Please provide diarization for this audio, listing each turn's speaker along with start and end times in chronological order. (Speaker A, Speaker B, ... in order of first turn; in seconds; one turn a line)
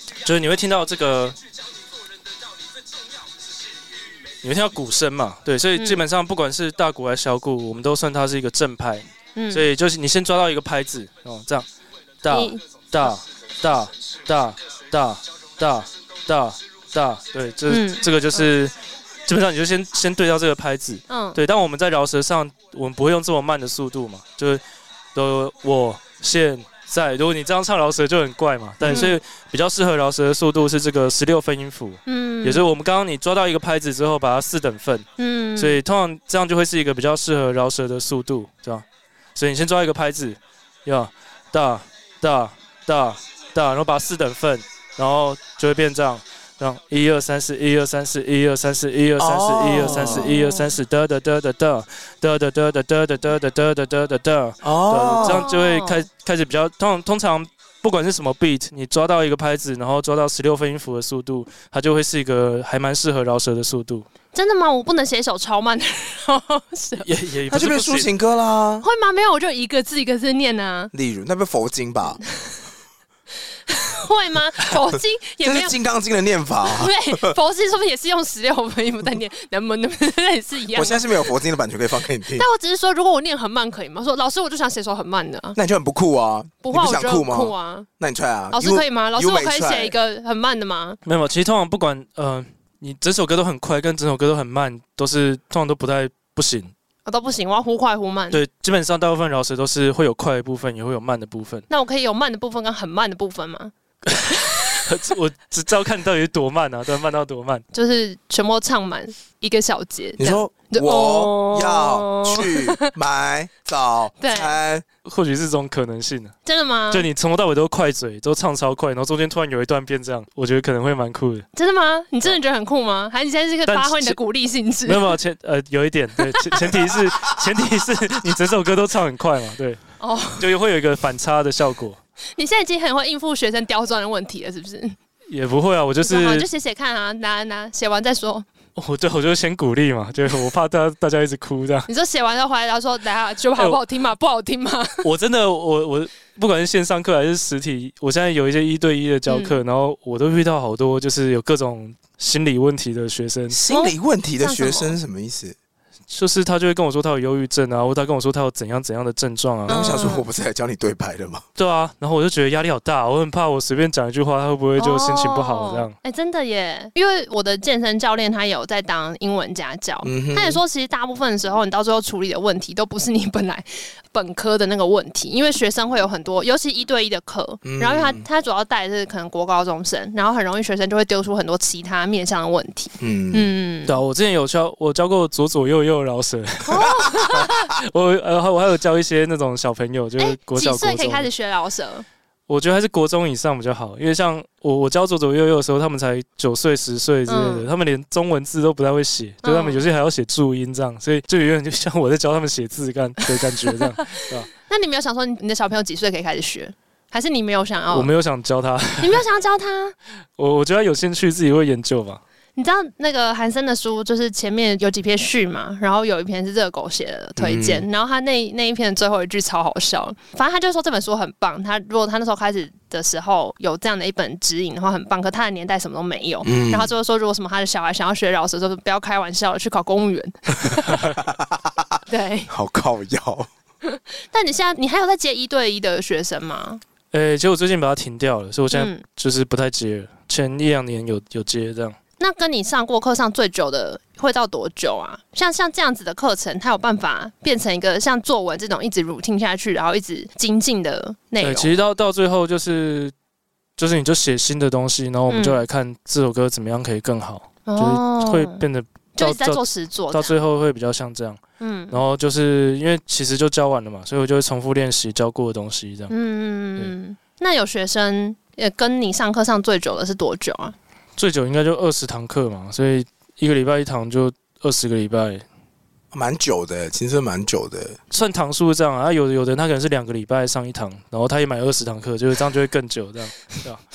Speaker A: 0.2-1.4
Speaker A: 4.4-11.7
Speaker B: 5.8-6.0
Speaker B: 9.3-9.7
Speaker A: 12.2-18.7
Speaker B: 12.3-12.6
Speaker B: 17.7-18.1
Speaker A: 19.3-24.6
Speaker B: 21.1-21.4
Speaker A: 25.1-38.8
Speaker B: 28.9-29.2
Speaker B: 32.1-32.6
Speaker B: 35.2-35.8
Speaker A: 39.4-64.1
Speaker C: 49.2-50.3
Speaker B: 49.8-50.7
Speaker C: 54.6-55.5
Speaker B: 55.2-56.1
Speaker B: 64.3-67.1
Speaker A: 67.0-68.1
Speaker C: 67.5-68.8
Speaker B: 68.8-70.9
Speaker C: 70.9-72.2
Speaker B: 73.7-75.8
Speaker C: 75.4-77.3
Speaker B: 76.6-81.2
Speaker C: 80.7-82.5
Speaker B: 82.3-85.6
Speaker C: 85.5-90.0
Speaker B: 86.6-87.9
Speaker B: 88.5-91.0
Speaker A: 91.1-96.7
Speaker B: 97.1-98.4
Speaker A: 98.3-101.7
Speaker B: 101.7-104.9
Speaker A: 104.1-107.6
Speaker B: 107.7-112.9
Speaker C: 110.2-114.8
Speaker B: 114.2-114.6
Speaker A: 115.0-116.3
Speaker B: 116.4-117.1
Speaker A: 116.9-121.5
Speaker B: 121.5-125.1
Speaker A: 123.7-124.2
Speaker A: 124.8-129.8
Speaker B: 126.2-126.7
Speaker B: 130.0-130.5
Speaker A: 130.4-132.0
Speaker B: 132.3-134.9
Speaker A: 135.3-136.4
Speaker B: 136.0-138.5
Speaker A: 138.8-141.9
Speaker B: 141.9-145.1
Speaker A: 145.0-153.6
Speaker B: 149.3-149.6
Speaker C: 153.5-155.6
Speaker B: 153.7-154.9
Speaker A: 156.1-159.9
Speaker C: 159.7-161.4
Speaker B: 159.7-160.2
Speaker A: 161.6-165.9
Speaker B: 164.8-183.9
Speaker C: 170.0-170.6
Speaker C: 177.6-178.2
Speaker C: 183.0-183.5
Speaker A: 183.9-191.3
Speaker B: 186.6-187.7
Speaker B: 190.2-192.1
Speaker A: 192.5-204.5
Speaker B: 197.3-197.7
Speaker B: 199.4-199.8
Speaker B: 204.2-208.1
Speaker A: 207.9-209.2
Speaker B: 209.0-209.9
Speaker A: 210.4-212.2
Speaker B: 212.6-231.1
Speaker C: 217.4-217.9
Speaker C: 226.4-226.9
Speaker C: 231.2-231.7
Speaker B: 232.1-232.5
Speaker C: 232.5-233.5
Speaker B: 233.8-236.8
Speaker A: 237.1-241.9
Speaker B: 238.7-239.0
Speaker B: 242.2-251.7
Speaker A: 251.4-253.1
Speaker A: 253.8-266.1
Speaker B: 255.3-255.6
Speaker B: 257.7-258.6
Speaker B: 259.2-260.4
Speaker B: 261.6-262.0
Speaker B: 266.1-270.7
Speaker A: 271.2-275.4
Speaker C: 276.1-278.0
Speaker A: 278.1-283.8